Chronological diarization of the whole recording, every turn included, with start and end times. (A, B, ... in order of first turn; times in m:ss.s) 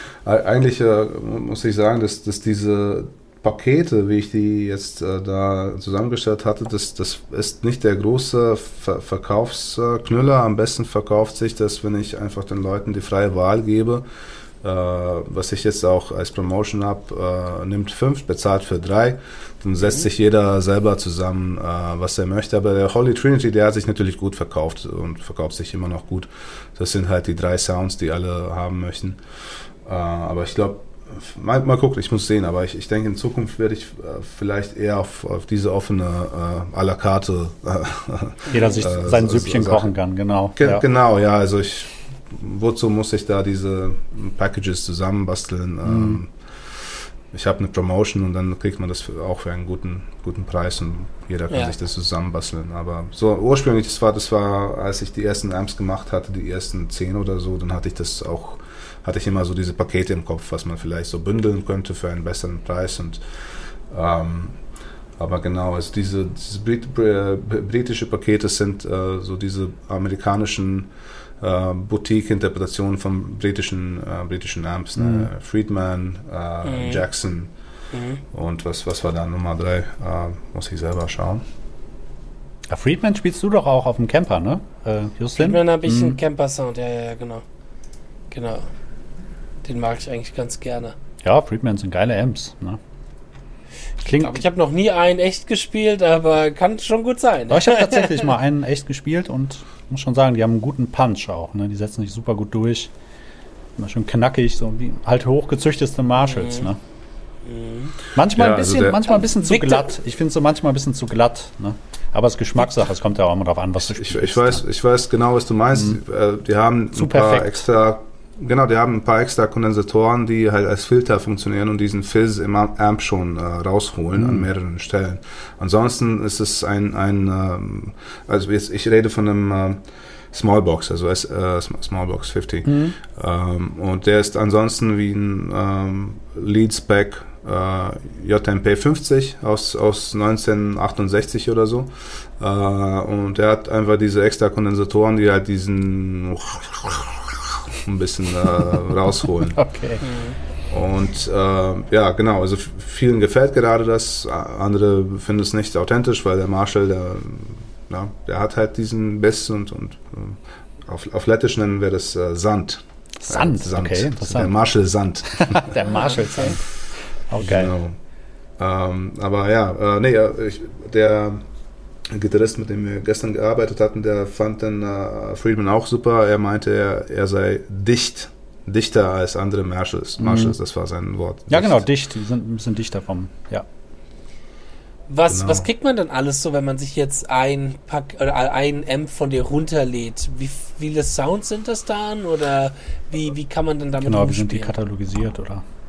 0:00.2-0:14.0 A
0:14.6-0:29.2 A
0:29.8-0:39.9 A
0:38.5-0:40.8 B
0:38.5-0:38.8 C
0:40.6-1:03.2 A
0:45.8-0:46.2 B
1:03.9-1:04.6 A
1:05.2-1:10.9 A
1:11.4-1:17.5 A
1:15.0-1:15.3 B
1:16.6-1:17.0 C
1:17.9-1:18.2 C
1:18.3-1:21.4 A
1:22.7-1:26.2 B
1:25.4-1:27.4 C
1:28.3-1:28.6 C
1:29.6-1:30.9 C
1:31.2-1:32.8 B
1:34.0-1:34.5 B
1:34.1-1:38.3 C
1:37.5-1:42.9 B
1:43.8-1:46.8 B
1:46.2-1:46.7 C
1:47.4-1:47.9 C
1:48.1-1:54.6 B
1:48.3-1:49.1 A
1:49.3-1:49.9 C
1:53.9-2:29.6 A
1:56.9-1:57.6 B
2:04.2-2:04.5 B
2:12.6-2:13.0 B
2:29.6-2:30.0 B
2:30.0-2:30.4 C
2:30.7-2:45.8 A
2:43.2-2:44.5 B
2:45.3-2:46.7 B
2:45.8-2:46.5 C
2:47.3-2:47.7 B
2:47.4-2:47.9 A
2:48.6-2:51.4 A
2:52.1-3:01.9 A
3:00.2-3:00.6 B
3:01.5-3:03.6 B
3:05.1-3:14.7 C
3:05.3-3:05.7 A
3:14.0-3:15.6 B